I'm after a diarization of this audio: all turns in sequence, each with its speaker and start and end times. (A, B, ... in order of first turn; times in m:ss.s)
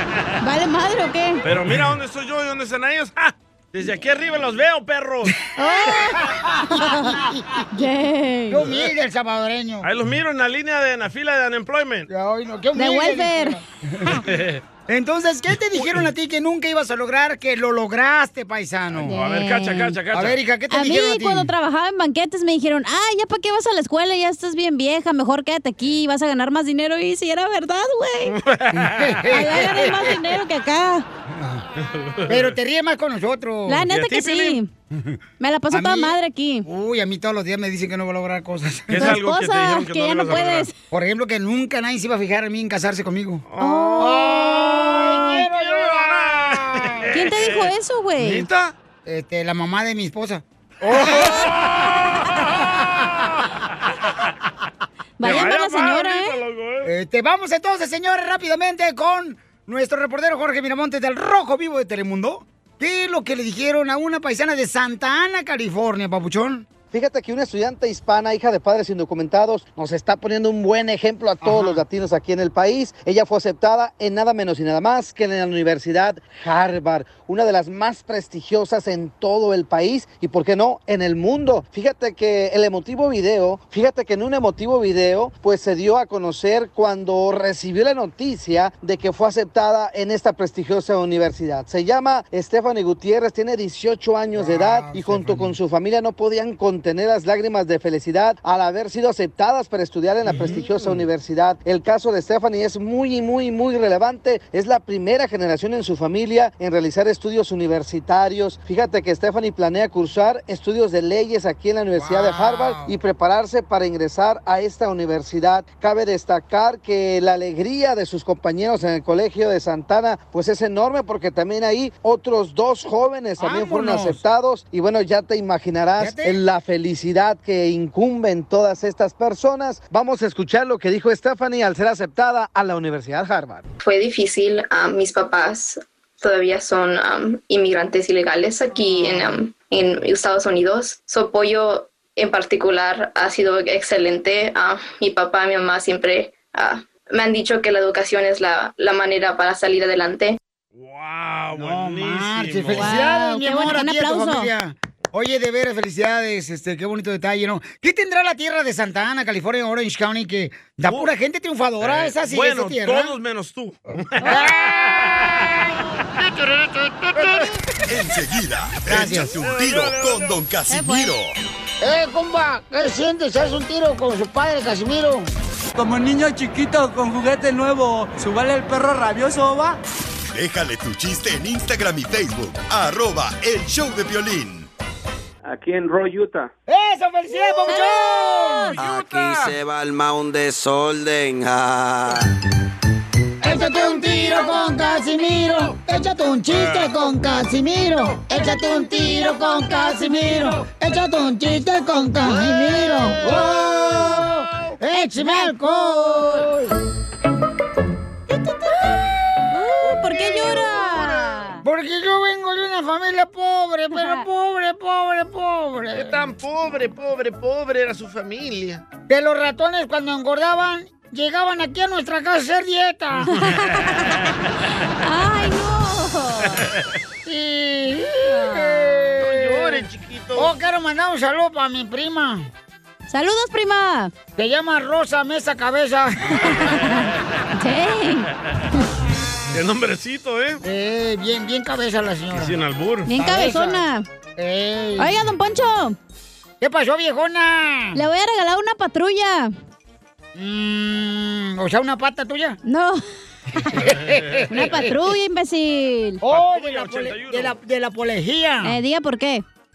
0:00.4-0:01.4 A
0:01.4-0:05.4 B
0:05.6-0:08.7 A
0:05.6-0:07.7 C
0:08.5-0:09.9 C
0:09.8-0:12.1 B
0:12.1-0:14.2 C
0:12.7-0:13.6 A
0:14.2-0:14.6 B
0:14.9-0:19.2 C
0:19.0-0:20.4 B
0:19.1-0:20.0 A
0:20.1-0:21.5 C
0:20.7-0:28.4 A
0:28.3-0:29.3 B
0:28.7-0:30.2 C
0:29.3-0:31.1 A
0:31.3-0:31.6 C
0:31.8-0:32.6 B
0:32.3-0:33.9 C
0:33.7-0:34.7 A
0:33.9-0:34.6 B
0:34.9-0:35.2 C
0:35.4-0:36.7 A
0:35.7-0:39.2 C
0:38.9-0:40.7 B
0:39.0-0:40.7 A
0:40.9-0:43.4 C
0:43.5-0:44.1 B
0:43.6-0:44.7 A
0:44.0-0:47.1 C
0:45.6-0:48.8 B
0:47.1-0:48.5 A
0:49.0-0:51.6 C
0:51.3-0:52.0 B
0:55.2-0:56.4 A
0:55.2-0:56.9 B
0:56.8-1:06.7 C
1:06.9-2:13.7 D
1:11.4-1:11.8 C
1:34.4-1:35.6 C
1:40.3-1:41.0 C
1:52.0-1:53.0 C
2:03.4-2:04.2 C
2:06.0-2:06.4 C
2:13.8-2:30.4 E
2:18.9-2:19.3 A
2:30.7-2:33.0 B
2:31.5-2:43.2 C
2:32.8-2:34.5 A
2:40.9-2:41.1 B
2:41.8-2:45.6 B
2:44.2-2:45.3 C
2:46.2-2:47.4 C
2:47.9-2:51.4 F
2:48.9-2:49.3 C
2:49.2-2:50.4 B
2:50.7-2:51.1 A
2:51.8-2:55.3 C
2:55.8-2:59.8 G
3:00.3-3:04.7 F
3:06.7-3:08.8 C
3:07.5-3:08.8 A
3:08.8-3:09.5 B
3:08.8-3:12.3 H
3:13.4-3:26.7 C
3:16.5-3:17.0 B
3:22.9-3:24.3 A
3:24.9-3:26.5 A
3:28.3-3:29.0 A
3:29.5-3:31.6 A
3:31.6-3:36.2 C
3:34.0-3:34.2 A
3:35.9-3:38.8 B
3:39.1-3:43.3 C
3:43.3-3:44.2 A
3:43.8-3:44.2 B
3:45.0-3:46.6 A
3:46.5-3:46.7 B
3:47.3-3:52.5 C
3:48.3-3:48.9 A
3:49.2-3:50.5 B
3:53.1-3:54.1 A
3:54.4-3:56.7 C
3:56.5-3:58.8 A
3:59.5-4:00.6 B
4:00.6-4:02.6 C
4:02.3-4:03.1 B
4:03.1-4:04.1 A
4:03.1-4:03.9 C
4:04.4-4:05.2 C
4:05.0-4:06.0 A
4:06.6-4:08.0 C
4:08.0-4:09.5 A
4:10.4-4:12.6 C
4:12.6-4:13.0 A
4:13.6-4:15.0 C
4:14.0-4:14.4 B
4:14.5-4:16.2 A
4:16.2-4:18.8 C
4:16.3-4:17.6 B
4:18.6-4:19.4 A